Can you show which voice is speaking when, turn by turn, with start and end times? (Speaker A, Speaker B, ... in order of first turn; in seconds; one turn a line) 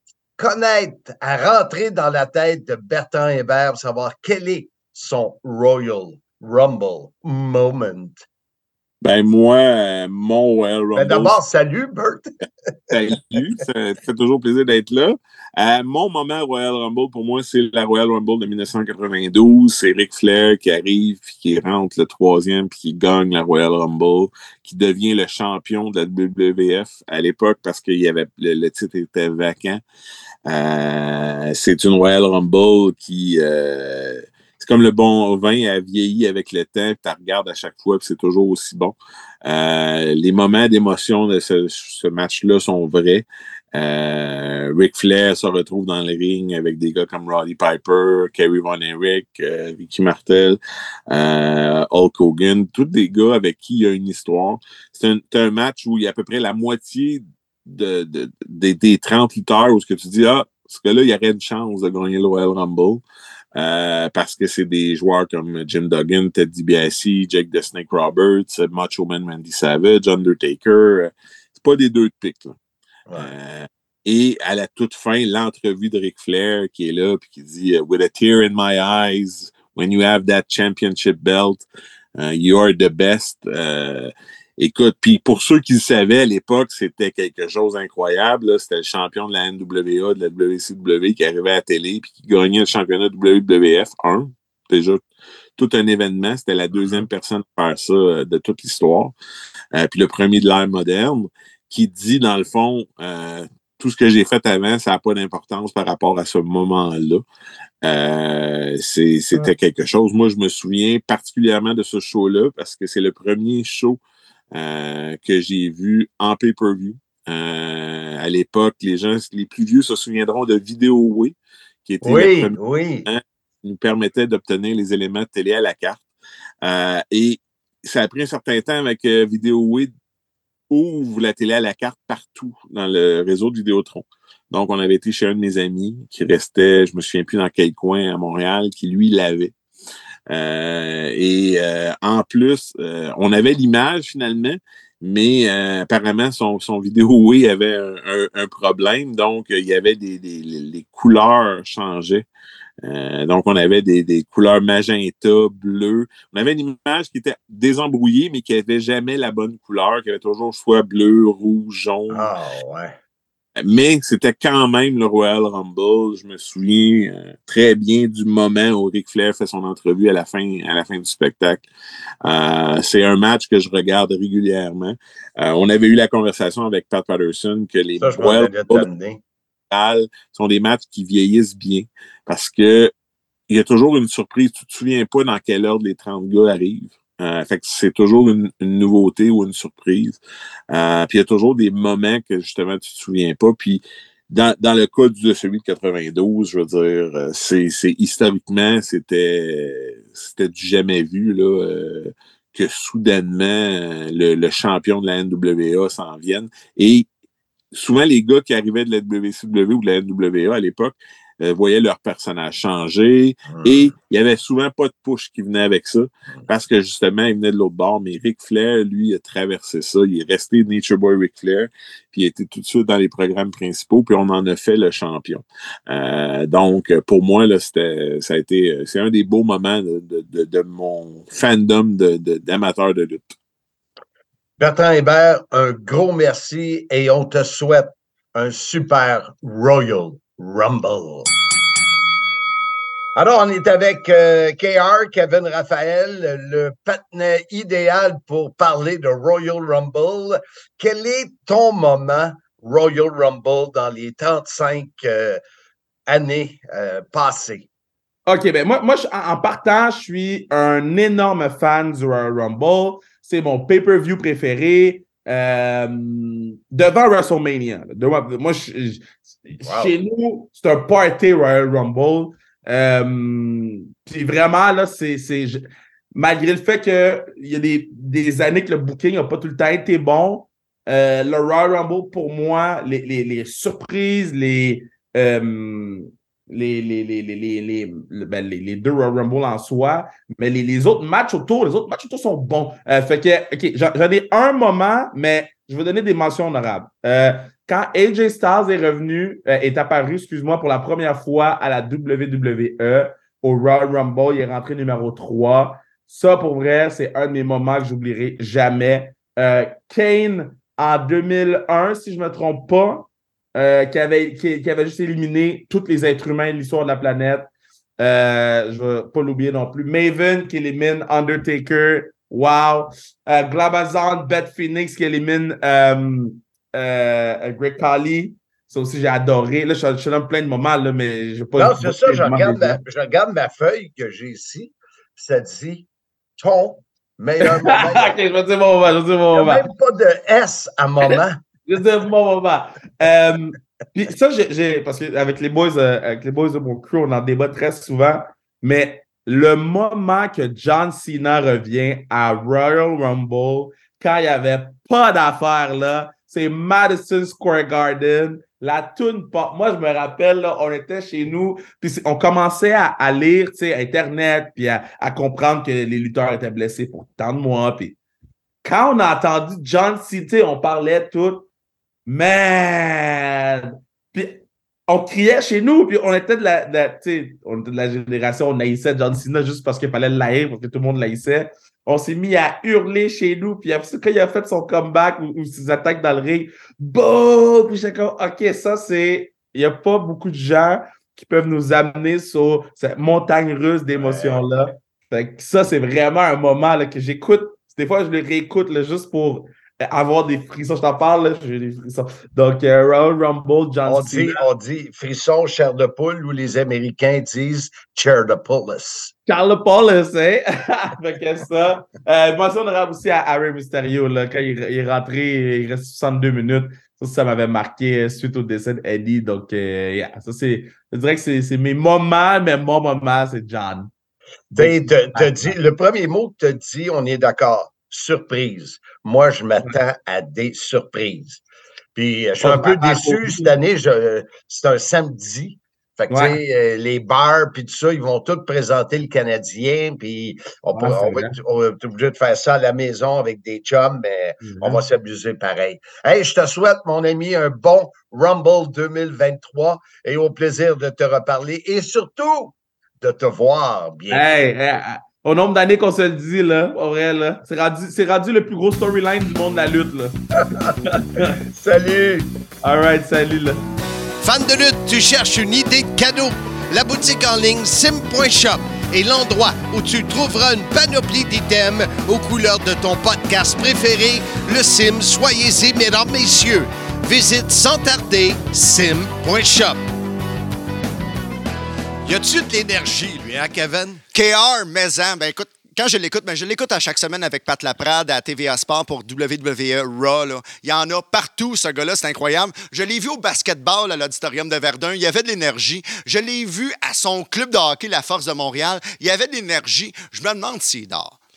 Speaker A: 0.4-8.2
Speaker B: 9.0-11.3
Speaker A: 10.9-12.3
Speaker B: 12.9-29.8
Speaker B: 30.5-50.6
Speaker B: 51.1-63.0
Speaker B: 63.5-72.6
Speaker B: 73.1-81.6
Speaker B: 82.2-95.0
Speaker B: 95.6-99.1
Speaker B: 99.7-107.2
Speaker B: 107.8-114.0
Speaker B: 114.5-121.3
Speaker B: 121.8-126.0
Speaker A: 122.0-123.0
Speaker B: 126.6-129.9
Speaker B: 130.7-139.5
Speaker B: 140.3-152.2
Speaker B: 152.8-162.3
Speaker A: 162.1-162.9
Speaker B: 163.6-171.7
Speaker B: 172.2-178.9
Speaker A: 178.0-179.2
Speaker B: 179.7-182.9
Speaker B: 183.5-190.2
Speaker B: 190.7-207.1
Speaker B: 207.7-233.3
Speaker A: 213.5-213.9
Speaker A: 234.6-241.3
Speaker A: 243.1-255.4
Speaker A: 256.1-257.7
Speaker C: 258.3-332.8
Speaker A: 269.6-269.9
Speaker A: 331.6-335.9
Speaker A: 336.4-338.1
Speaker C: 337.4-339.7
Speaker A: 339.3-341.4
Speaker C: 341.7-367.9
Speaker C: 368.6-371.4
Speaker C: 372.1-404.4
Speaker A: 394.0-394.4
Speaker A: 403.9-409.1
Speaker C: 409.3-423.9
Speaker C: 424.5-425.6
Speaker A: 424.5-431.4
Speaker A: 431.9-454.2
Speaker C: 432.4-433.5
Speaker C: 436.1-436.4
Speaker C: 440.8-441.4
Speaker C: 444.4-444.8
Speaker C: 454.1-460.2
Speaker C: 460.8-461.4
Speaker A: 461.5-462.3
Speaker C: 462.6-463.6
Speaker D: 464.2-479.8
Speaker D: 482.0-484.0
Speaker E: 484.1-501.2